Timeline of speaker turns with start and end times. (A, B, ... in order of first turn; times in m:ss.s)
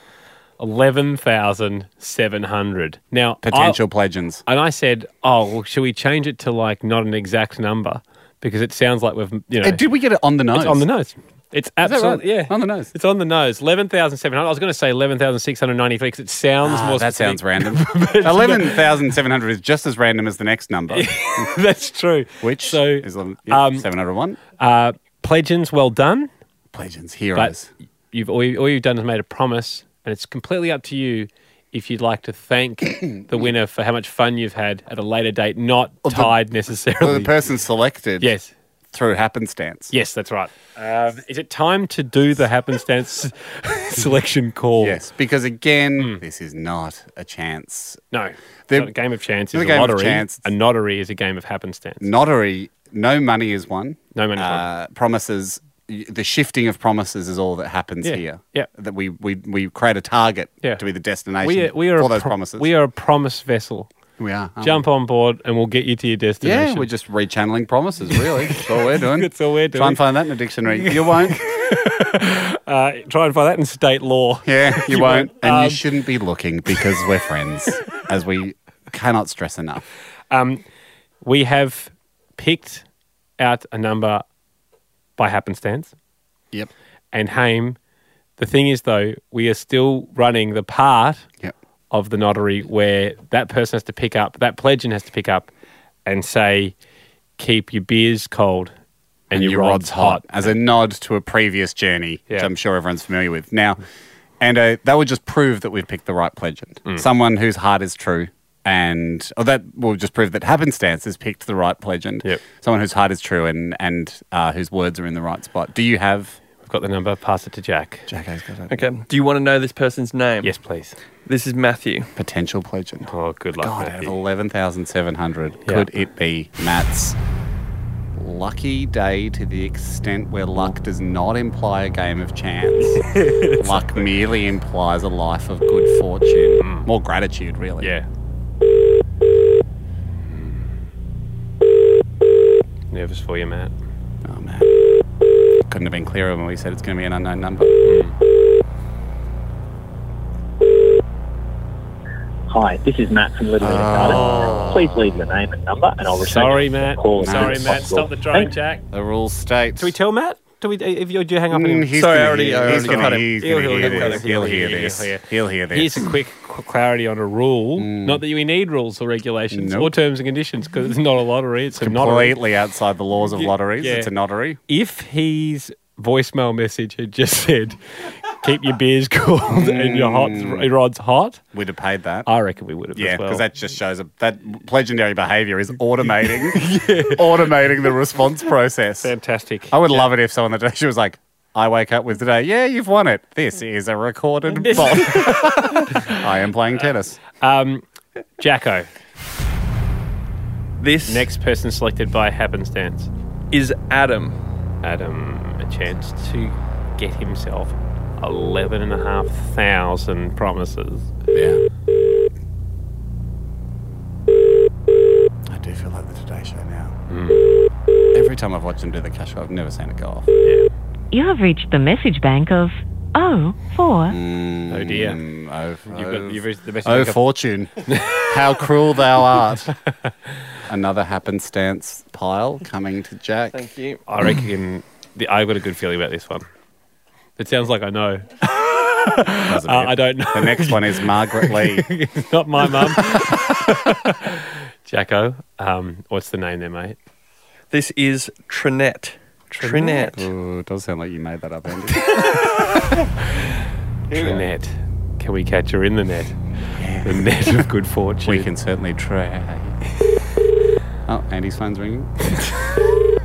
0:00.6-0:03.8 A
0:03.4-0:04.4 B
0:04.4-0:09.8 A
0:09.6-0:10.8 B
0:10.5-0:18.9 A
0:11.8-0:12.9 B
0:16.6-0:21.5 B
0:20.9-0:23.8 A
0:22.4-0:24.4 B
0:24.6-0:26.3 A
0:26.7-0:27.7 B
0:28.1-0:37.3 A
0:36.0-0:36.4 B
0:37.0-0:38.3 B
0:38.2-0:38.5 A
0:38.9-0:39.9 B
0:39.9-0:45.0 A
0:44.8-0:48.0 B
0:48.1-0:52.1 A
0:49.5-0:50.4 B
0:52.0-1:02.7 B
0:54.1-0:54.6 A
0:58.0-0:58.7 A
1:01.4-1:03.9 A
1:04.2-1:04.8 B
1:04.6-1:06.9 A
1:06.4-1:11.4 B
1:08.5-1:10.0 A
1:10.8-1:15.8 A
1:14.4-1:19.8 B
1:20.3-1:20.6 A
1:21.2-1:22.8 A
1:23.4-1:24.2 A
1:25.2-1:25.9 A
1:27.1-1:27.8 A
1:28.4-1:31.2 A
1:31.9-1:35.5 A
1:36.0-1:36.7 A
1:37.4-1:38.7 A
1:39.3-1:40.5 A
1:39.3-1:43.8 B
1:44.4-1:56.4 B
1:56.6-1:58.1 A
1:58.1-1:58.8 B
1:58.7-2:00.6 C
2:00.4-2:00.9 A
2:01.2-2:02.1 C
2:02.2-2:07.2 B
2:03.1-2:04.1 A
2:08.2-2:17.9 B
2:12.8-2:14.0 A
2:16.6-2:16.9 A
2:17.8-2:18.0 A
2:20.3-2:20.6 A
2:22.9-2:23.7 A
2:24.2-2:24.7 B
2:25.6-2:27.8 B
2:27.8-2:28.1 A
2:32.5-2:38.5 D
2:33.6-2:34.9 B
2:34.0-2:34.8 A
2:36.2-2:38.8 A
2:37.2-2:37.8 B
2:38.9-2:39.9 B
2:39.8-2:42.0 A
2:41.5-2:46.0 B
2:41.9-2:44.2 C
2:42.6-2:52.4 A
2:47.8-2:48.2 B
2:49.5-2:49.9 B
2:51.8-2:54.6 B
2:53.4-2:54.1 A
2:54.7-2:57.8 A
2:58.3-3:01.4 A
2:59.5-3:00.7 B
3:01.5-3:02.3 B
3:02.2-3:03.4 A
3:03.0-3:09.1 B
3:06.5-3:07.2 A
3:09.0-3:10.1 A
3:09.7-3:17.2 B
3:14.5-3:16.2 A
3:17.4-3:17.8 A
3:18.4-3:18.9 A
3:20.8-3:21.3 C
3:21.0-3:23.1 A
3:23.5-3:24.4 C
3:24.8-3:31.1 A
3:31.3-3:31.6 B
3:35.4-3:36.9 B
3:37.1-3:37.4 A
3:38.1-3:40.3 B
3:41.1-3:44.2 E
3:44.1-3:49.7 B
3:44.7-3:45.2 A
3:45.9-3:47.2 A
3:47.9-3:48.2 A
3:50.7-3:53.6 B
3:53.5-3:54.0 C
3:54.1-3:56.4 A
3:57.4-4:07.0 A
3:59.5-4:01.9 B
4:02.8-4:03.5 B
4:07.7-4:10.3 C
4:09.5-4:10.1 A
4:10.0-4:12.6 B
4:14.1-4:14.4 C
4:14.1-4:16.4 A
4:16.8-4:17.7 B
4:17.0-4:18.5 A
4:18.2-4:19.8 B
4:21.0-4:22.4 B